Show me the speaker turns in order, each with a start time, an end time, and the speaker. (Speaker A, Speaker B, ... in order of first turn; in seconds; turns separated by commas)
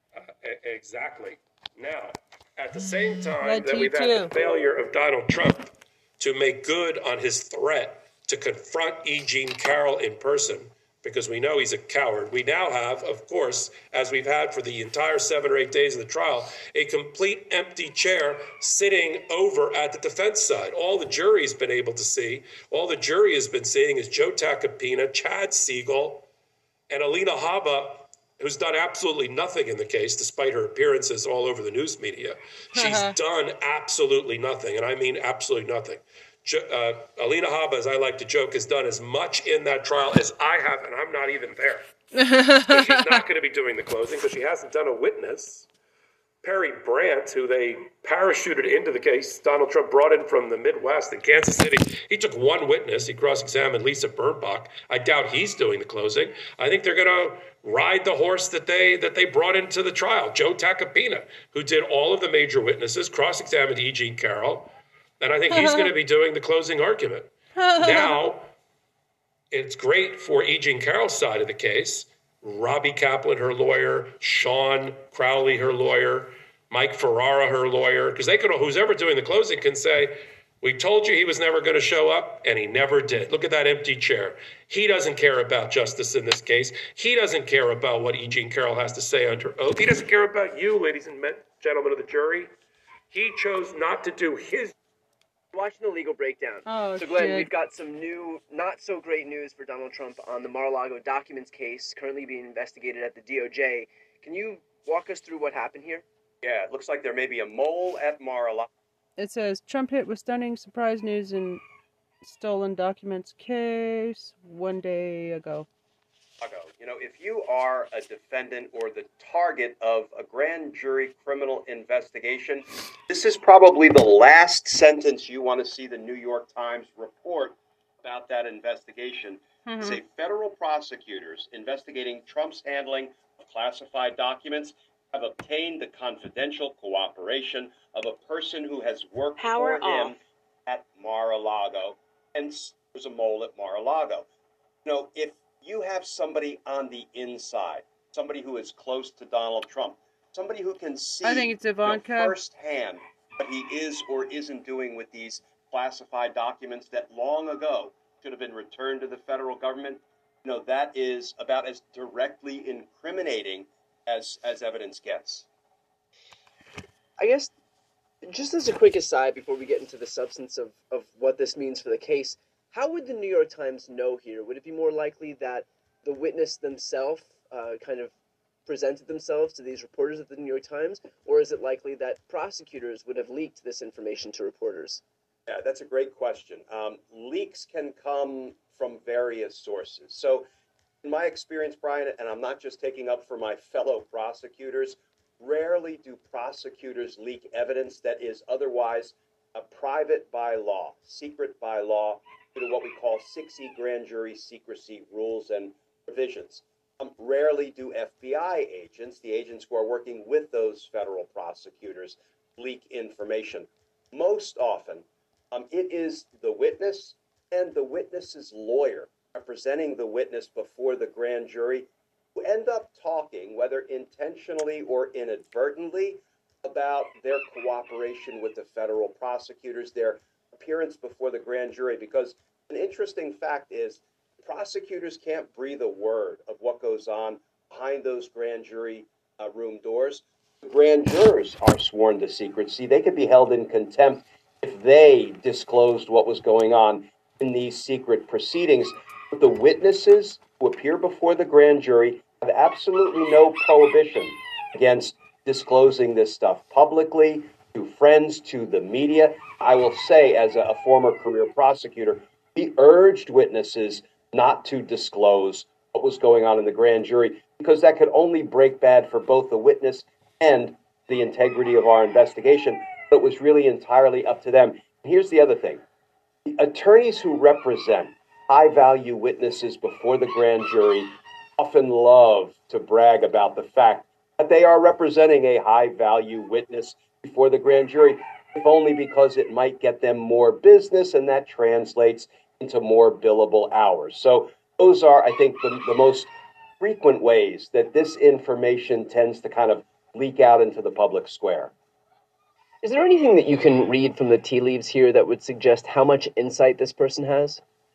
Speaker A: 0.1-26.2, Speaker B: 3.3-4.3, Speaker A: 26.9-41.9, Speaker B: 32.8-33.1, Speaker B: 42.2-43.2, Speaker A: 42.6-45.7, Speaker A: 46.4-68.5, Speaker B: 65.5-65.9, Speaker B: 67.6-68.2, Speaker A: 69.5-92.5, Speaker A: 93.1-94.7, Speaker C: 95.5-106.0, Speaker B: 96.7-97.5, Speaker D: 106.4-108.7, Speaker B: 109.2-111.6, Speaker B: 112.2-115.7, Speaker D: 116.4-144.2, Speaker B: 129.7-130.0, Speaker D: 144.8-165.4, Speaker B: 151.2-152.4, Speaker C: 167.2-167.5, Speaker C: 168.2-178.1, Speaker C: 178.7-185.0, Speaker D: 185.5-190.4, Speaker D: 191.0-275.8, Speaker D: 276.5-296.3, Speaker D: 296.8-301.7, Speaker C: 302.8-307.6